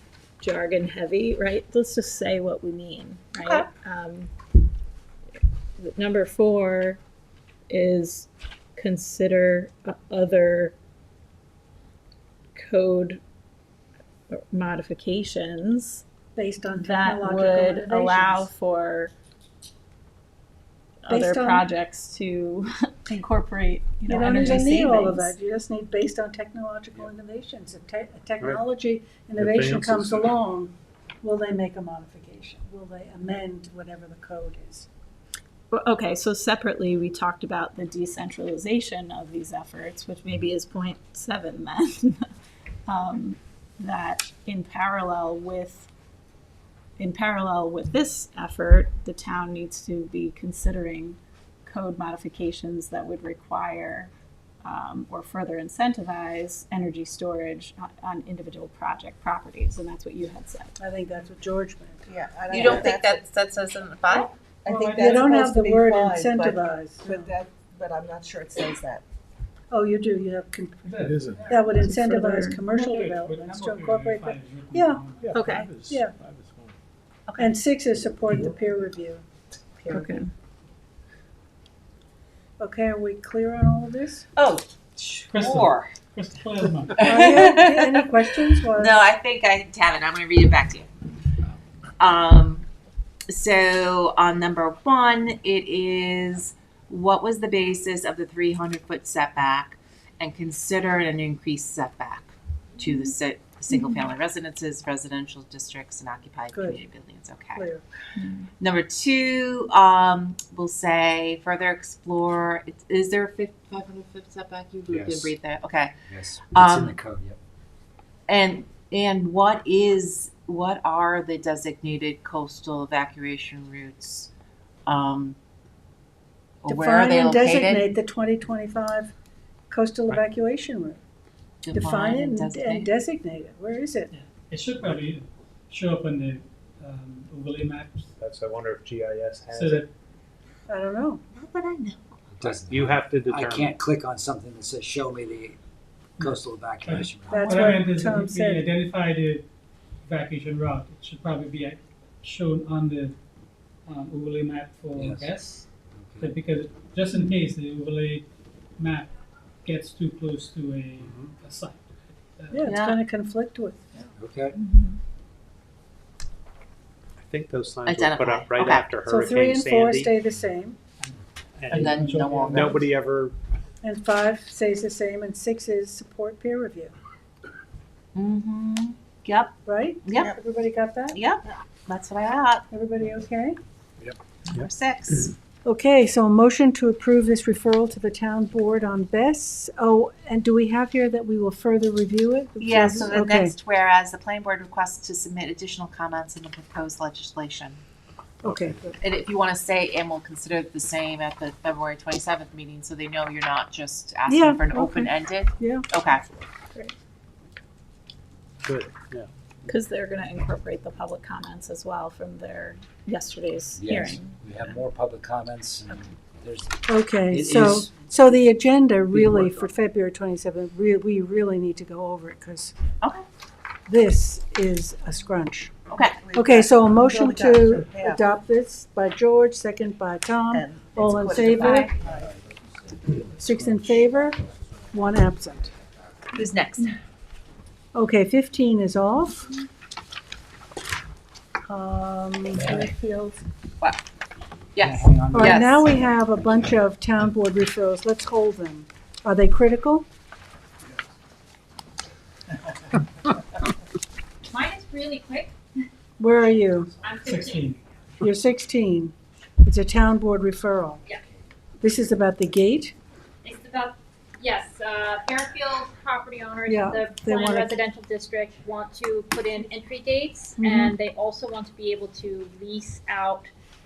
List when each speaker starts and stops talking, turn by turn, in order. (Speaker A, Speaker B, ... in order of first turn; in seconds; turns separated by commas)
Speaker A: 0.4-4.3, Speaker B: 3.4-3.7, Speaker A: 5.8-7.0, Speaker A: 7.7-10.8, Speaker A: 12.6-13.2, Speaker A: 14.3-16.0, Speaker C: 16.4-18.5, Speaker A: 16.8-19.1, Speaker A: 21.0-25.4, Speaker C: 21.1-21.7, Speaker C: 24.1-34.9, Speaker D: 29.4-30.3, Speaker A: 35.7-42.2, Speaker A: 42.9-45.9, Speaker A: 47.0-54.1, Speaker A: 54.6-60.7, Speaker C: 60.8-62.0, Speaker E: 62.1-63.2, Speaker B: 62.5-64.3, Speaker E: 64.6-69.0, Speaker F: 64.7-65.2, Speaker C: 64.9-67.3, Speaker C: 69.7-75.0, Speaker F: 70.8-71.9, Speaker D: 71.0-71.5, Speaker A: 71.8-72.7, Speaker F: 72.7-75.5, Speaker D: 75.2-76.7, Speaker A: 75.3-75.8, Speaker C: 75.8-76.1, Speaker B: 77.3-77.5, Speaker C: 77.4-79.2, Speaker A: 79.8-80.3, Speaker C: 79.9-80.2, Speaker C: 82.6-84.3, Speaker B: 84.3-86.0, Speaker F: 85.2-87.1, Speaker B: 86.9-90.9, Speaker C: 87.0-89.1, Speaker B: 92.0-92.7, Speaker B: 93.3-107.7, Speaker A: 103.7-104.0, Speaker C: 106.5-106.8, Speaker C: 107.5-107.8, Speaker A: 108.2-108.5, Speaker B: 108.6-115.9, Speaker G: 114.9-115.3, Speaker G: 116.1-117.4, Speaker B: 116.5-117.0, Speaker B: 118.3-124.3, Speaker B: 124.9-125.4, Speaker B: 126.6-127.9, Speaker C: 126.7-129.1, Speaker C: 129.7-131.0, Speaker B: 131.6-132.9, Speaker C: 131.7-134.1, Speaker F: 134.1-138.1, Speaker D: 134.8-135.1, Speaker D: 138.2-139.9, Speaker F: 139.5-139.9, Speaker C: 140.7-141.2, Speaker B: 141.3-142.2, Speaker G: 142.3-145.6, Speaker D: 142.4-143.8, Speaker G: 146.2-147.8, Speaker F: 146.2-149.5, Speaker C: 147.3-148.7, Speaker F: 150.1-153.2, Speaker F: 153.9-155.7, Speaker G: 154.9-155.3, Speaker G: 155.9-156.4, Speaker F: 156.2-158.3, Speaker F: 158.8-159.1, Speaker F: 159.6-161.8, Speaker D: 161.0-161.3, Speaker F: 162.4-162.7, Speaker C: 162.5-163.8, Speaker B: 162.7-163.0, Speaker G: 164.2-164.6, Speaker D: 167.2-170.2, Speaker B: 167.8-169.0, Speaker C: 169.1-170.8, Speaker F: 171.0-172.9, Speaker B: 171.7-172.8, Speaker D: 172.6-173.4, Speaker C: 173.8-176.9, Speaker B: 178.2-180.3, Speaker C: 179.7-181.2, Speaker B: 181.1-182.7, Speaker C: 182.7-183.6, Speaker D: 184.0-184.7, Speaker B: 184.5-185.3, Speaker C: 185.7-193.6, Speaker B: 192.6-197.8, Speaker C: 198.4-199.0, Speaker D: 198.5-198.8, Speaker B: 199.0-206.3, Speaker C: 204.3-205.9, Speaker D: 208.6-209.3, Speaker A: 209.7-214.3, Speaker G: 213.8-218.4, Speaker C: 216.9-222.8, Speaker G: 219.1-219.7, Speaker C: 223.9-231.9, Speaker B: 225.9-226.3, Speaker E: 225.9-228.4, Speaker E: 230.5-232.3, Speaker C: 233.4-235.7, Speaker B: 236.3-237.0, Speaker C: 237.9-239.5, Speaker C: 241.7-243.4, Speaker G: 242.5-242.9, Speaker B: 244.8-245.9, Speaker G: 244.8-246.7, Speaker C: 245.3-250.1, Speaker H: 254.5-255.5, Speaker C: 256.2-256.9, Speaker H: 257.0-257.8, Speaker F: 257.2-257.8, Speaker C: 258.2-261.0, Speaker C: 261.8-262.9, Speaker H: 263.4-273.5, Speaker C: 266.7-267.8, Speaker C: 270.6-270.9